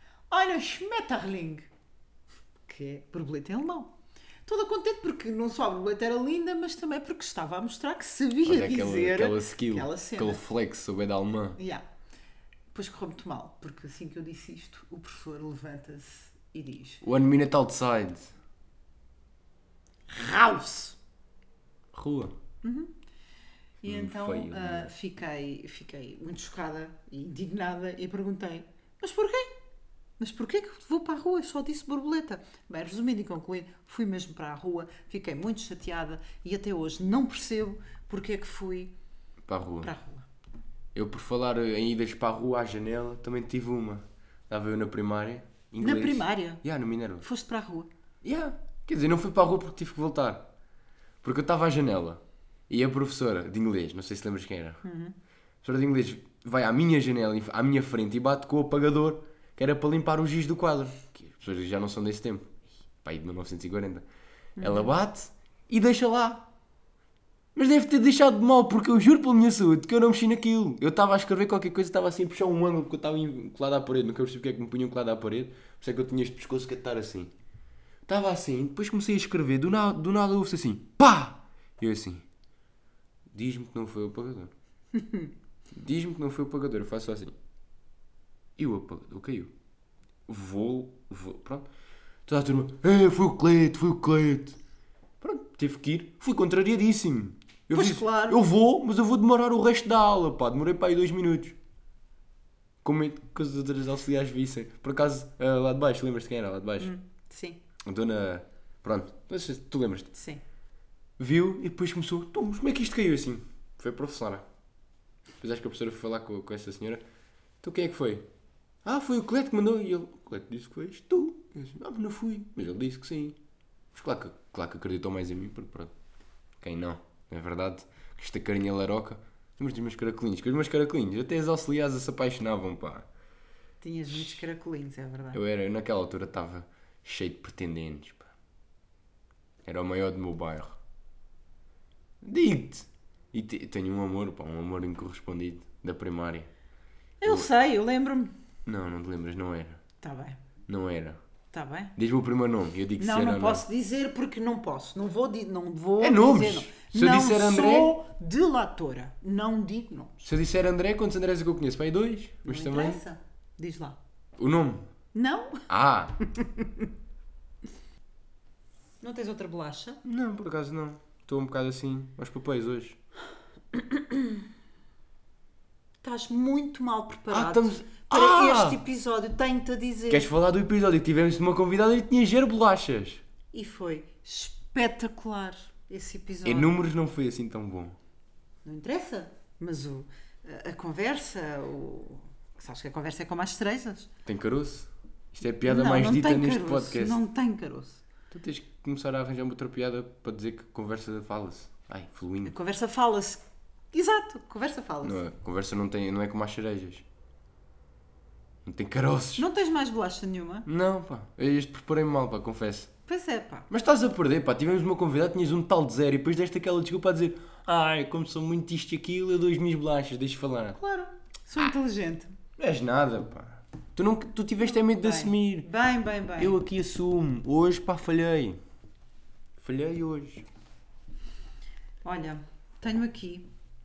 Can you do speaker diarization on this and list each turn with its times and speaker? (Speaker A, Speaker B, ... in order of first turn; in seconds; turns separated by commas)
Speaker A: 0.3-1.6, Speaker A: 2.6-3.9, Speaker A: 4.5-10.4, Speaker B: 8.4-11.6, Speaker A: 11.6-11.8, Speaker A: 12.7-17.0, Speaker B: 17.0-18.3, Speaker A: 20.1-21.0, Speaker B: 21.9-22.3, Speaker A: 22.6-22.9, Speaker A: 23.8-29.5, Speaker B: 23.8-24.9, Speaker A: 30.2-38.9, Speaker B: 39.5-39.9, Speaker A: 39.8-40.3, Speaker B: 40.9-47.2, Speaker A: 45.8-46.6, Speaker A: 47.2-47.9, Speaker B: 48.2-50.5, Speaker B: 51.2-54.8, Speaker A: 54.8-55.1, Speaker B: 55.6-64.0, Speaker A: 64.6-64.9, Speaker B: 64.6-66.5, Speaker B: 67.5-77.3, Speaker B: 78.1-82.2, Speaker B: 83.3-84.5, Speaker A: 85.0-85.3, Speaker B: 85.7-87.3, Speaker B: 88.6-89.5, Speaker B: 90.3-91.7, Speaker B: 92.2-94.6, Speaker B: 95.2-101.6, Speaker A: 97.7-98.4, Speaker B: 102.8-106.9, Speaker A: 106.8-107.6, Speaker B: 107.8-110.1, Speaker A: 110.1-110.4, Speaker B: 111.2-114.4, Speaker B: 115.4-117.0, Speaker B: 117.6-118.2, Speaker B: 118.8-123.4, Speaker B: 123.9-125.9, Speaker B: 126.6-133.1, Speaker A: 133.8-135.4, Speaker B: 135.3-138.3, Speaker B: 139.6-140.8, Speaker B: 142.2-146.5, Speaker A: 147.2-148.3, Speaker B: 147.2-147.5, Speaker B: 148.7-149.8, Speaker A: 150.0-150.4, Speaker B: 150.7-151.2, Speaker A: 151.5-151.9, Speaker B: 151.9-153.6, Speaker A: 153.0-160.3, Speaker B: 156.0-158.0, Speaker B: 160.2-163.0, Speaker A: 162.4-164.0, Speaker B: 164.4-164.9, Speaker A: 165.1-165.6, Speaker B: 165.7-166.2, Speaker A: 166.3-166.8, Speaker A: 169.0-170.0, Speaker B: 170.0-173.0, Speaker A: 173.7-174.4, Speaker A: 176.0-180.3, Speaker B: 177.3-178.8, Speaker B: 180.1-183.2, Speaker A: 183.5-186.7, Speaker B: 186.4-188.0, Speaker A: 188.6-194.1, Speaker B: 194.2-197.2, Speaker A: 195.6-198.0, Speaker B: 198.3-202.5, Speaker A: 202.4-205.2, Speaker B: 205.0-207.0, Speaker B: 208.6-209.4, Speaker A: 209.4-210.7, Speaker B: 210.7-212.9, Speaker A: 213.1-213.7, Speaker B: 213.7-220.8, Speaker A: 220.8-222.4, Speaker B: 222.6-225.7, Speaker A: 224.7-226.6, Speaker B: 226.4-228.6, Speaker B: 229.6-230.5, Speaker A: 232.0-233.5